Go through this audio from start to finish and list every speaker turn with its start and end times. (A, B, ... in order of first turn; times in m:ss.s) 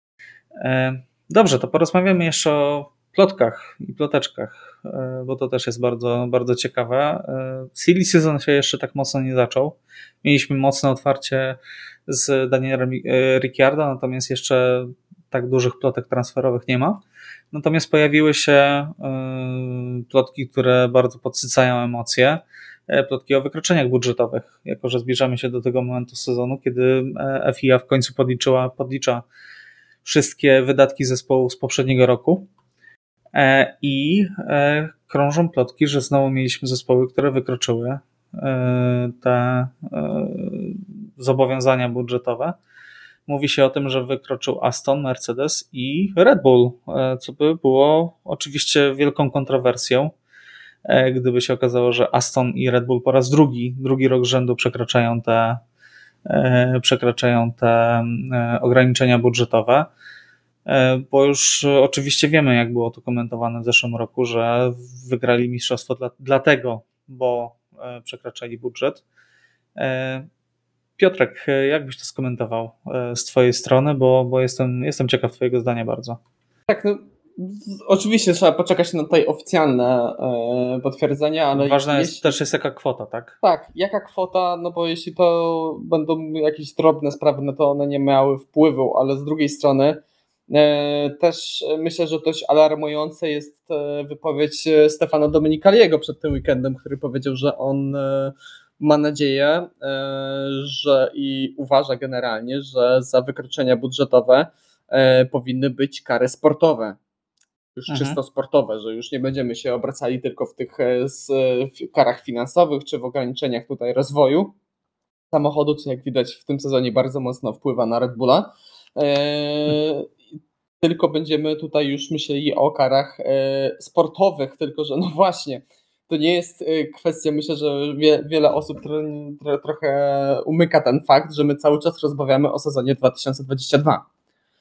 0:00.6-0:29.2 A
0:30.0-0:32.5 A
0:33.3-0:42.6 A
0:43.3-0:50.1 A
0:50.8-0:55.6 A
0:56.3-0:59.9 A
1:00.6-1:09.0 A
1:09.8-1:10.3 A
1:11.0-1:16.2 A
1:16.7-1:22.4 B
1:21.5-1:23.4 A
1:23.4-1:47.0 B
1:47.8-1:54.5 B
1:47.9-1:48.2 A
1:55.3-2:00.1 B
2:00.8-2:14.0 B